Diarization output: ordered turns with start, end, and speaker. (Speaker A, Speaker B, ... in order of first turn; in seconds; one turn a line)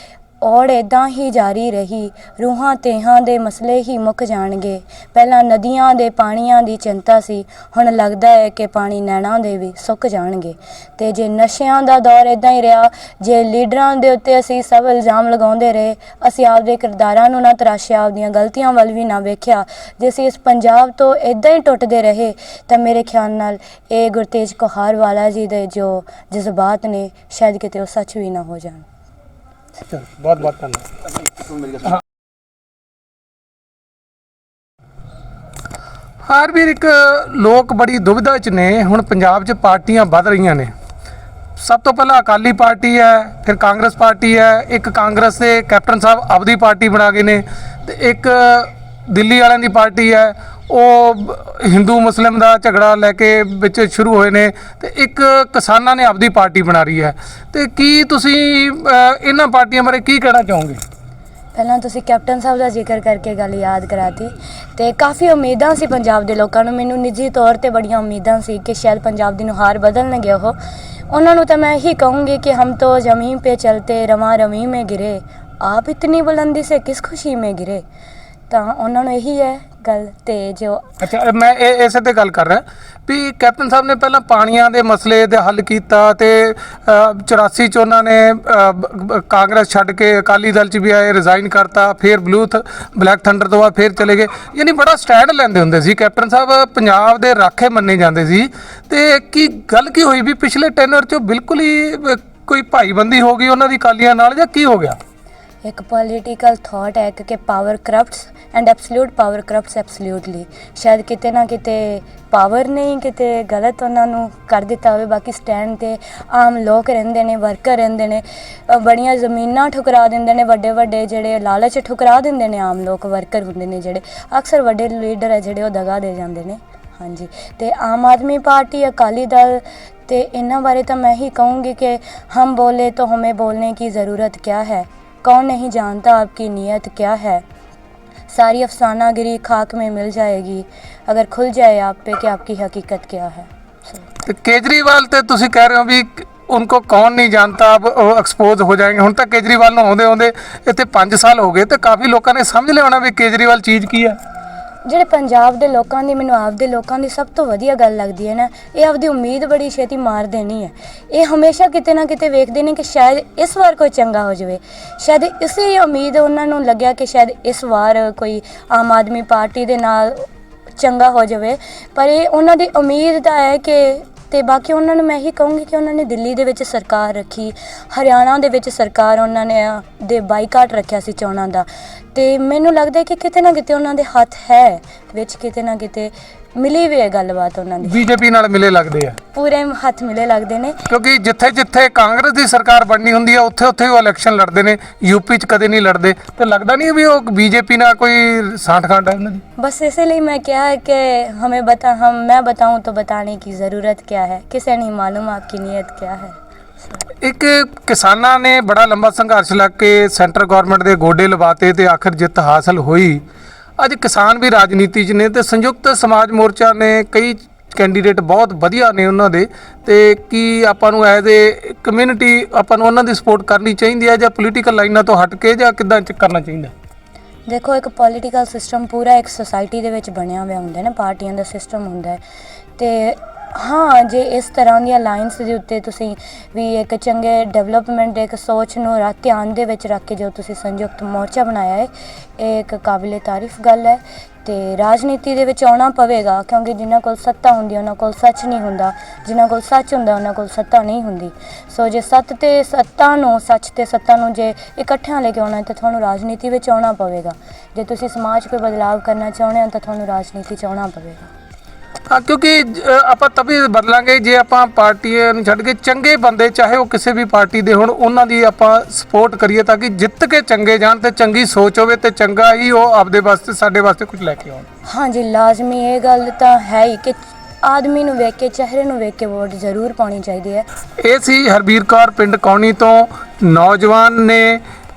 Speaker A: 0.4-28.9
Speaker B: 29.9-31.0
Speaker B: 36.3-40.7
Speaker B: 41.6-60.8
Speaker A: 61.5-70.5
Speaker A: 71.1-77.8
Speaker A: 78.5-80.9
Speaker B: 81.0-105.0
Speaker A: 105.6-137.4
Speaker A: 138.3-144.0
Speaker B: 144.2-154.2
Speaker A: 154.8-170.3
Speaker A: 170.8-188.0
Speaker B: 187.8-189.2
Speaker A: 189.3-190.8
Speaker B: 190.9-199.4
Speaker A: 199.6-206.4
Speaker B: 207.2-213.2
Speaker B: 213.8-226.7
Speaker A: 227.5-232.2
Speaker A: 232.8-261.3
Speaker B: 262.1-274.6
Speaker A: 274.9-280.6
Speaker B: 281.0-284.6